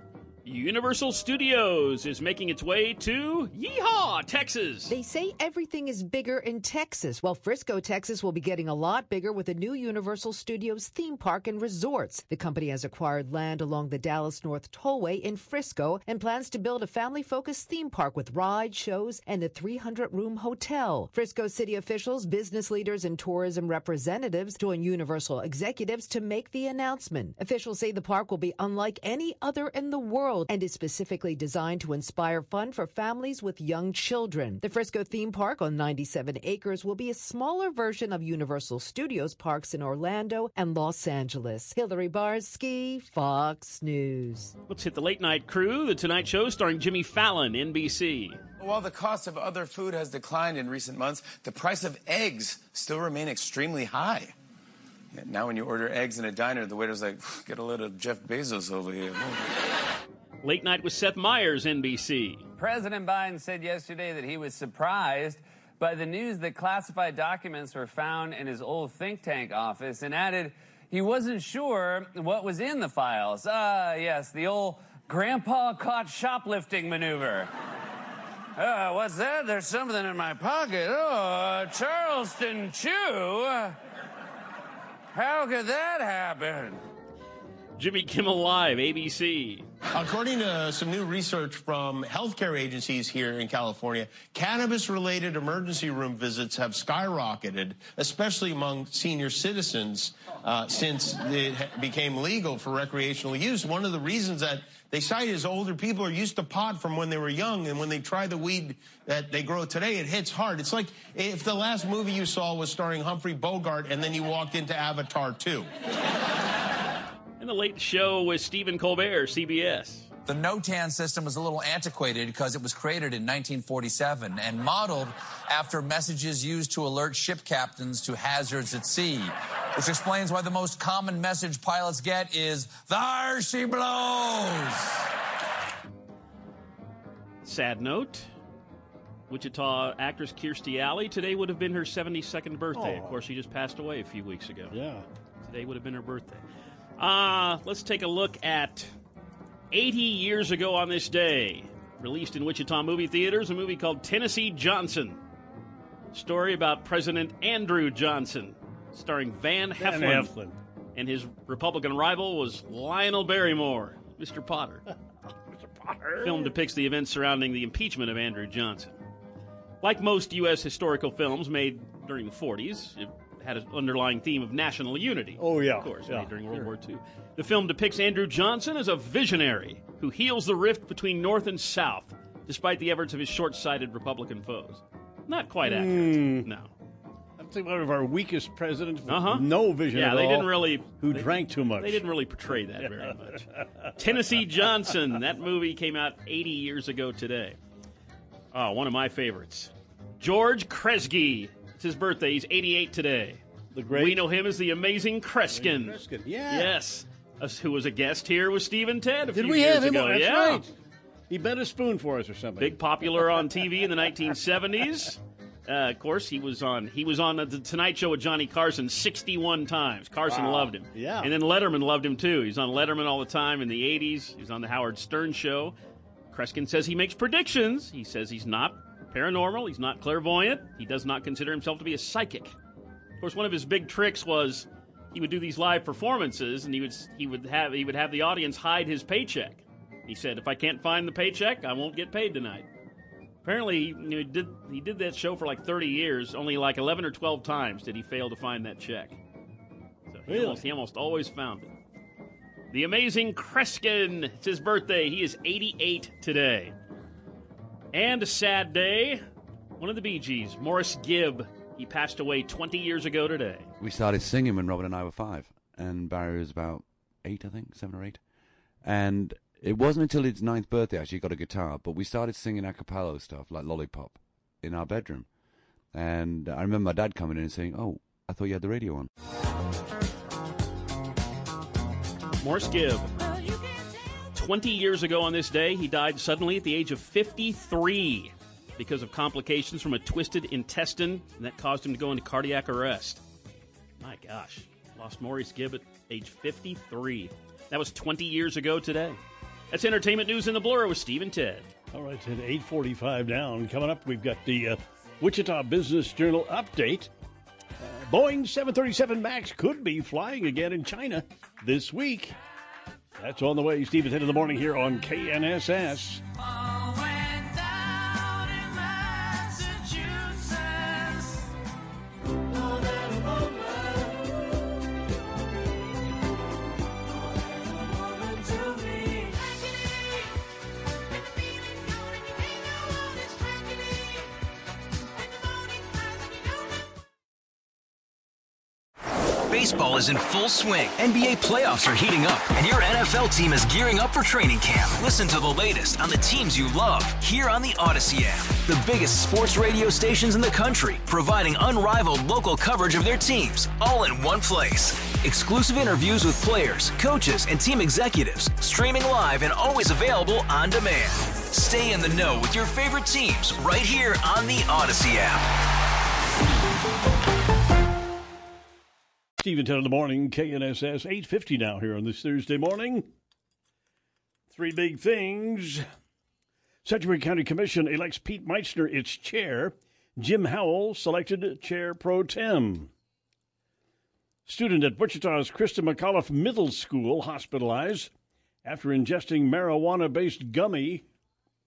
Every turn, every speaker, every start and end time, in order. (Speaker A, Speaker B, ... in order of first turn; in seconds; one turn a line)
Speaker A: 0.5-4.9
Speaker B: 4.9-44.5
Speaker A: 44.7-48.4
Speaker C: 48.6-54.2
Speaker C: 55.3-59.1
Speaker A: 60.4-62.5
Speaker D: 62.6-77.5
Speaker D: 78.6-83.8
Speaker D: 85.1-86.8
Speaker A: 87.8-89.7
Speaker E: 89.9-115.7
Speaker A: 117.4-120.1
Speaker F: 120.3-135.0
Speaker A: 137.4-138.3
Speaker A: 139.3-144.7
Speaker G: 142.7-143.2
Speaker G: 144.7-145.1
Speaker A: 145.4-146.4
Speaker A: 147.0-148.9
Speaker A: 149.7-155.2
Speaker A: 156.1-160.3
Speaker G: 159.8-160.6
Speaker A: 160.9-164.9
Speaker G: 164.9-166.5
Speaker A: 166.2-169.0
Speaker A: 169.8-186.7
Speaker G: 175.4-176.7
Speaker G: 185.6-186.5
Speaker G: 187.4-192.1
Speaker A: 189.1-197.6
Speaker G: 192.7-194.1
Speaker A: 198.5-203.4
Speaker G: 203.7-204.2
Speaker A: 203.9-210.7
Speaker G: 205.5-206.8
Speaker G: 209.3-210.7
Speaker G: 211.3-213.6
Speaker A: 212.6-225.8
Speaker G: 220.3-221.3
Speaker A: 226.3-232.5
Speaker A: 233.2-242.7
Speaker A: 243.4-249.2
Speaker A: 250.1-251.7
Speaker G: 250.3-250.6
Speaker A: 252.7-256.7
Speaker A: 257.9-259.2
Speaker A: 259.8-263.7
Speaker H: 263.8-268.2
Speaker H: 268.8-275.3
Speaker H: 275.9-279.1
Speaker A: 282.4-283.3
Speaker A: 284.3-293.2
Speaker A: 294.0-299.2
Speaker A: 299.7-301.7
Speaker G: 301.9-307.1
Speaker G: 307.8-312.4
Speaker G: 313.2-316.2
Speaker I: 339.5-365.4
Speaker G: 369.4-373.1
Speaker G: 374.5-375.8
Speaker G: 376.8-382.9
Speaker G: 384.5-388.1
Speaker G: 388.6-391.0